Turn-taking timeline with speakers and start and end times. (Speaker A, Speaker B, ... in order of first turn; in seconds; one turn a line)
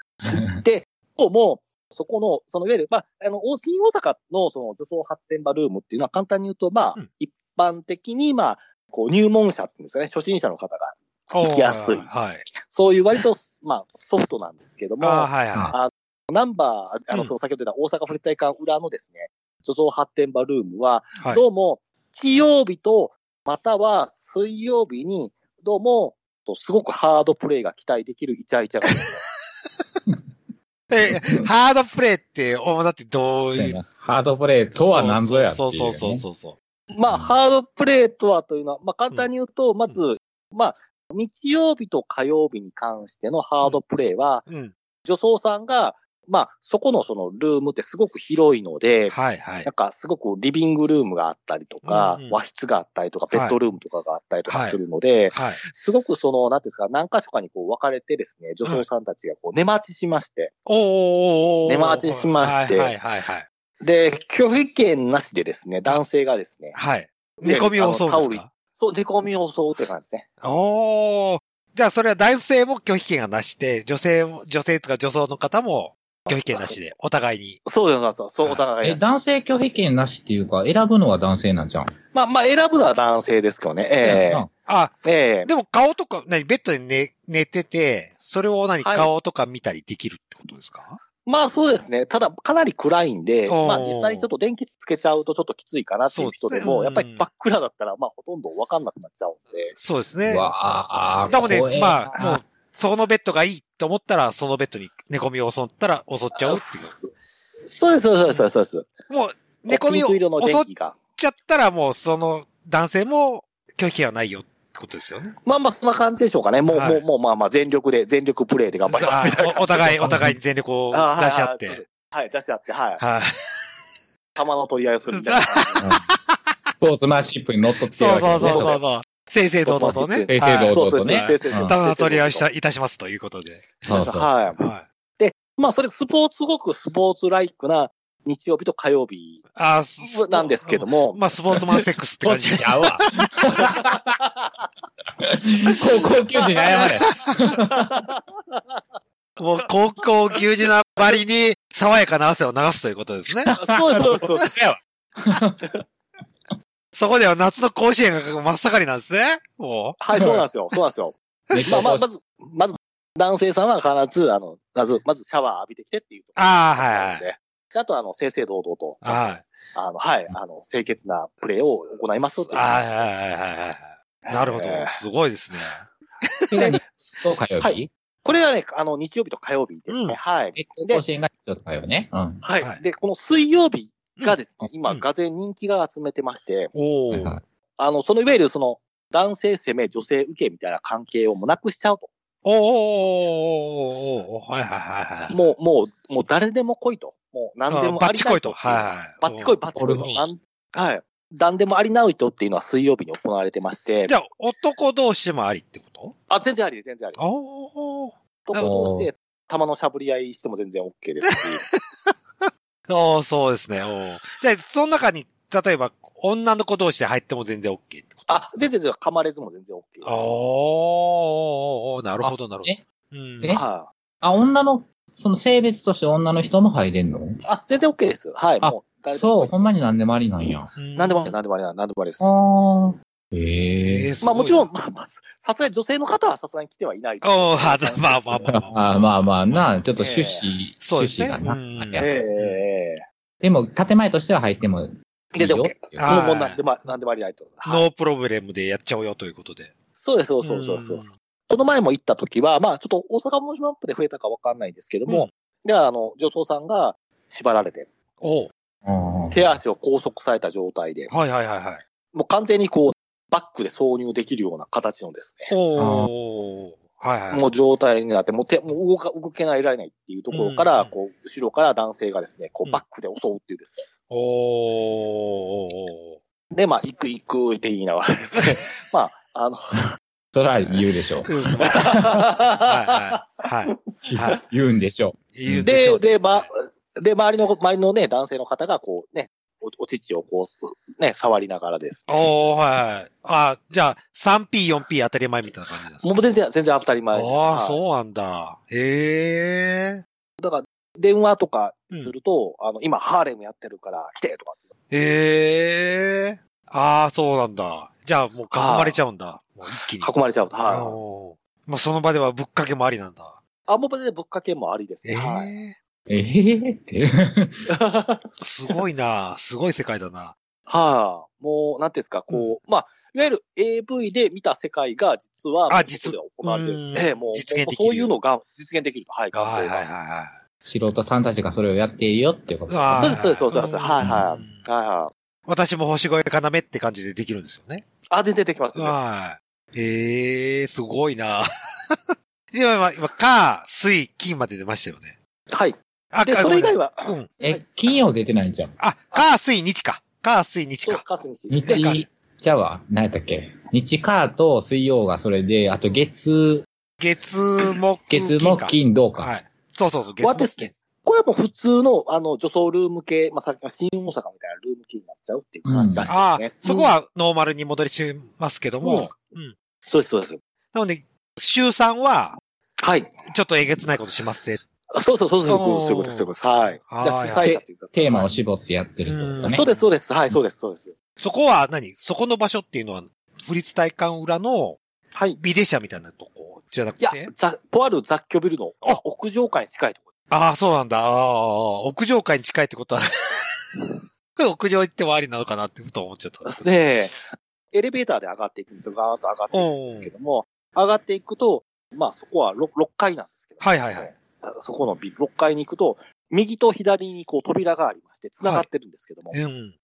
Speaker A: 0.3-0.6
Speaker B: 0.6-12.1
Speaker C: 11.3-12.4
Speaker B: 12.6-29.2
Speaker C: 15.0-15.7
Speaker C: 30.9-33.8
Speaker A: 33.5-36.2
Speaker C: 34.7-36.5
Speaker B: 36.9-44.5
Speaker C: 44.5-44.7
Speaker B: 45.0-60.5
Speaker C: 49.1-49.7
Speaker C: 51.8-52.4
Speaker C: 54.5-54.8
Speaker C: 55.3-55.6
Speaker C: 60.6-63.5
Speaker B: 61.6-62.9
Speaker B: 63.8-66.8
Speaker C: 66.7-68.5
Speaker B: 67.4-70.2
Speaker C: 70.4-77.6
Speaker B: 76.2-76.8
Speaker B: 77.6-79.0
Speaker A: 78.8-81.9
Speaker B: 82.1-84.4
Speaker A: 84.0-84.5
Speaker C: 84.0-91.0
Speaker B: 85.0-85.5
Speaker B: 88.8-89.1
Speaker B: 91.2-99.7
Speaker C: 93.5-94.3
Speaker C: 96.1-97.3
Speaker C: 99.7-100.5
Speaker A: 100.2-102.4
Speaker C: 101.3-106.9
Speaker B: 106.3-107.1
Speaker B: 107.6-108.9
Speaker C: 109.1-115.3
Speaker B: 109.7-111.0
Speaker B: 115.4-120.1
Speaker C: 116.7-117.0
Speaker C: 118.9-121.8
Speaker A: 120.0-120.4
Speaker B: 120.9-123.0
Speaker C: 123.0-123.3
Speaker B: 124.3-125.8
Speaker C: 125.1-126.2
Speaker A: 126.8-128.8
Speaker C: 127.9-134.8
Speaker B: 128.4-128.8
Speaker B: 129.6-132.4
Speaker A: 130.3-131.7
Speaker A: 133.9-134.3
Speaker B: 133.9-134.6
Speaker B: 135.2-139.4
Speaker C: 139.5-143.3
Speaker B: 140.0-141.2
Speaker A: 142.2-144.1
Speaker A: 145.2-147.9
Speaker B: 147.9-148.2
Speaker C: 149.4-153.5
Speaker A: 153.4-155.8
Speaker B: 153.5-154.5
Speaker C: 156.9-160.4
Speaker B: 160.0-161.2
Speaker C: 161.5-161.8
Speaker A: 161.5-162.0
Speaker B: 161.7-172.9
Speaker C: 166.4-167.3
Speaker C: 169.0-169.5
Speaker C: 172.2-176.8
Speaker B: 174.2-175.0
Speaker A: 176.5-177.9
Speaker B: 177.6-181.0
Speaker C: 179.9-180.2
Speaker A: 180.5-182.4
Speaker B: 182.4-186.7
Speaker C: 186.7-187.4
Speaker A: 187.1-187.4
Speaker B: 187.8-192.1
Speaker C: 192.4-195.4
Speaker B: 195.3-204.1
Speaker C: 197.7-200.2
Speaker A: 199.8-200.1
Speaker C: 204.1-206.1
Speaker B: 206.3-207.2
Speaker C: 207.2-208.1
Speaker B: 208.4-211.6
Speaker A: 208.6-209.1
Speaker C: 211.3-211.8
Speaker C: 212.4-218.3
Speaker B: 218.3-220.3
Speaker C: 220.0-223.6
Speaker A: 222.2-222.8
Speaker B: 223.5-223.9
Speaker A: 224.2-227.4
Speaker B: 227.4-229.6
Speaker A: 228.6-230.7
Speaker C: 230.8-231.3
Speaker B: 230.9-232.3
Speaker A: 232.2-234.1
Speaker C: 233.8-234.7
Speaker B: 234.2-238.6
Speaker C: 237.2-239.8
Speaker A: 238.6-242.1
Speaker B: 240.0-240.5
Speaker C: 240.8-242.6
Speaker B: 242.0-243.0
Speaker A: 243.4-246.2
Speaker B: 245.3-247.8
Speaker C: 245.9-246.6
Speaker C: 247.7-249.7
Speaker B: 249.9-257.9
Speaker C: 250.4-251.1
Speaker C: 258.2-258.5
Speaker A: 258.8-259.4
Speaker B: 259.3-261.1
Speaker C: 261.1-261.8
Speaker B: 262.1-265.5
Speaker C: 265.5-267.4
Speaker A: 265.8-266.1
Speaker B: 267.3-273.9
Speaker C: 270.3-270.9
Speaker C: 274.1-276.2
Speaker B: 276.5-279.6
Speaker A: 280.3-281.3
Speaker C: 281.2-282.0
Speaker B: 281.7-283.2
Speaker C: 282.6-284.4
Speaker A: 284.1-285.8
Speaker C: 285.3-286.5
Speaker B: 285.6-292.2
Speaker C: 292.1-296.1
Speaker B: 296.0-297.8
Speaker C: 297.1-300.0
Speaker B: 300.4-304.6
Speaker C: 304.9-310.1
Speaker B: 308.5-309.0
Speaker B: 310.0-311.0
Speaker C: 310.6-313.4
Speaker B: 313.7-315.5
Speaker C: 315.0-315.8
Speaker A: 316.1-317.6
Speaker B: 317.7-318.3
Speaker C: 318.4-320.3
Speaker B: 320.7-329.8
Speaker C: 325.7-328.1
Speaker C: 329.3-330.4
Speaker A: 330.6-333.2
Speaker C: 332.7-334.6
Speaker B: 332.9-335.1
Speaker A: 334.0-334.2
Speaker C: 335.5-337.9
Speaker B: 338.1-339.0
Speaker C: 338.8-345.2
Speaker B: 345.5-347.6
Speaker C: 346.1-347.3
Speaker A: 347.4-348.7
Speaker C: 348.8-351.0
Speaker B: 350.8-351.9
Speaker A: 351.5-356.6
Speaker C: 351.6-352.1
Speaker C: 357.0-360.7
Speaker A: 358.1-359.3
Speaker B: 360.2-366.9
Speaker A: 365.6-366.1
Speaker C: 366.1-369.5
Speaker B: 368.8-369.1
Speaker B: 369.9-370.4
Speaker C: 370.7-372.4
Speaker B: 372.8-373.2
Speaker C: 373.3-374.6
Speaker B: 374.9-378.3
Speaker C: 375.4-376.3
Speaker C: 376.9-377.5
Speaker A: 377.4-379.6
Speaker C: 379.0-379.9
Speaker B: 379.4-380.9
Speaker C: 381.2-384.8
Speaker B: 385.1-385.4
Speaker C: 385.4-387.3
Speaker B: 387.0-390.1
Speaker C: 390.3-396.7
Speaker B: 396.4-397.2
Speaker B: 397.7-409.4
Speaker C: 399.5-400.1
Speaker C: 403.6-404.1
Speaker C: 408.4-408.7
Speaker C: 409.3-409.7